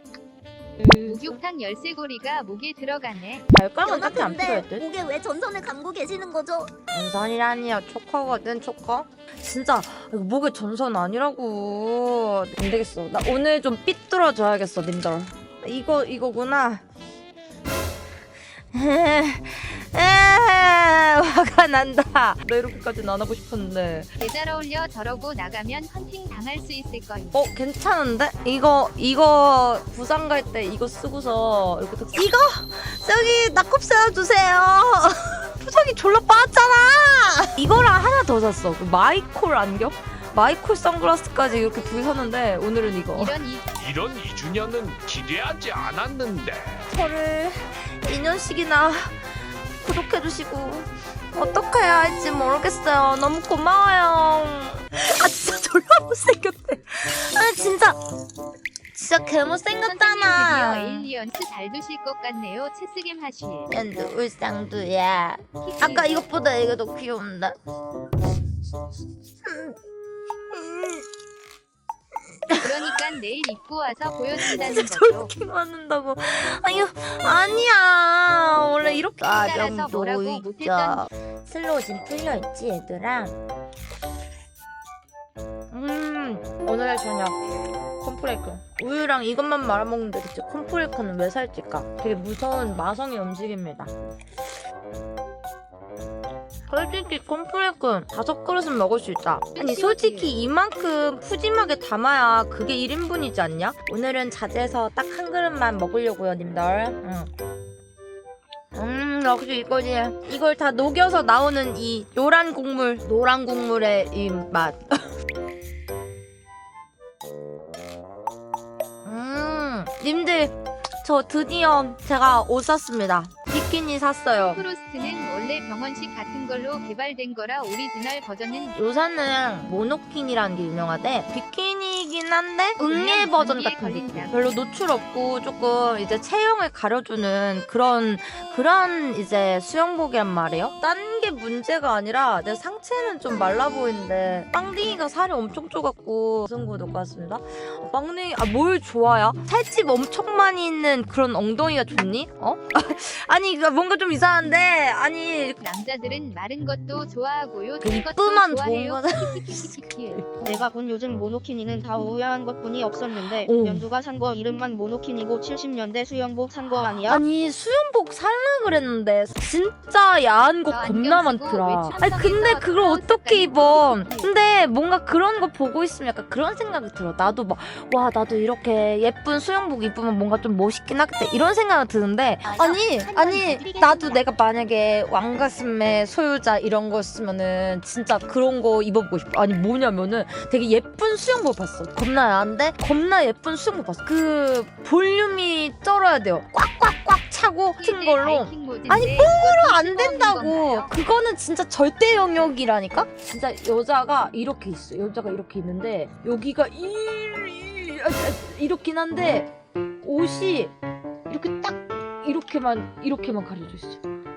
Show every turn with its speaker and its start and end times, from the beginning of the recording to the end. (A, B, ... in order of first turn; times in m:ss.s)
0:00.8-0:01.4 A
0:01.0-0:03.4 B
0:03.5-0:04.9 A
0:03.8-0:06.7 C
0:06.9-0:16.8 A
0:18.7-0:24.1 A
0:24.2-0:27.5 B
0:27.3-0:43.4 A
0:43.1-0:43.6 B
0:43.8-0:46.6 D
0:46.9-0:49.2 A
0:49.8-0:58.0 A
0:58.9-1:01.1 A
0:59.8-1:03.7 B
1:03.7-1:07.6 A
1:05.6-1:06.2 B
1:09.4-1:09.8 A
1:10.5-1:11.1 A
1:12.5-1:13.0 A
1:12.6-1:15.3 B
1:14.4-1:23.4 A
1:19.2-1:21.1 B
1:25.7-1:27.4 A
1:28.0-1:34.1 A
1:36.7-1:47.3 A
1:39.5-1:40.3 B
1:48.7-1:55.1 A
1:59.0-2:04.6 A
2:04.5-2:08.8 B
2:08.7-2:35.6 A
2:12.8-2:14.5 B
2:35.6-2:40.2 B
2:37.8-2:40.6 A
2:40.4-2:47.2 E
2:43.2-2:43.9 A
2:46.7-3:29.5 A
2:50.7-2:54.3 B
3:02.4-3:04.2 C
3:17.8-3:21.0 B
3:30.0-3:30.7 A
3:31.3-3:34.0 A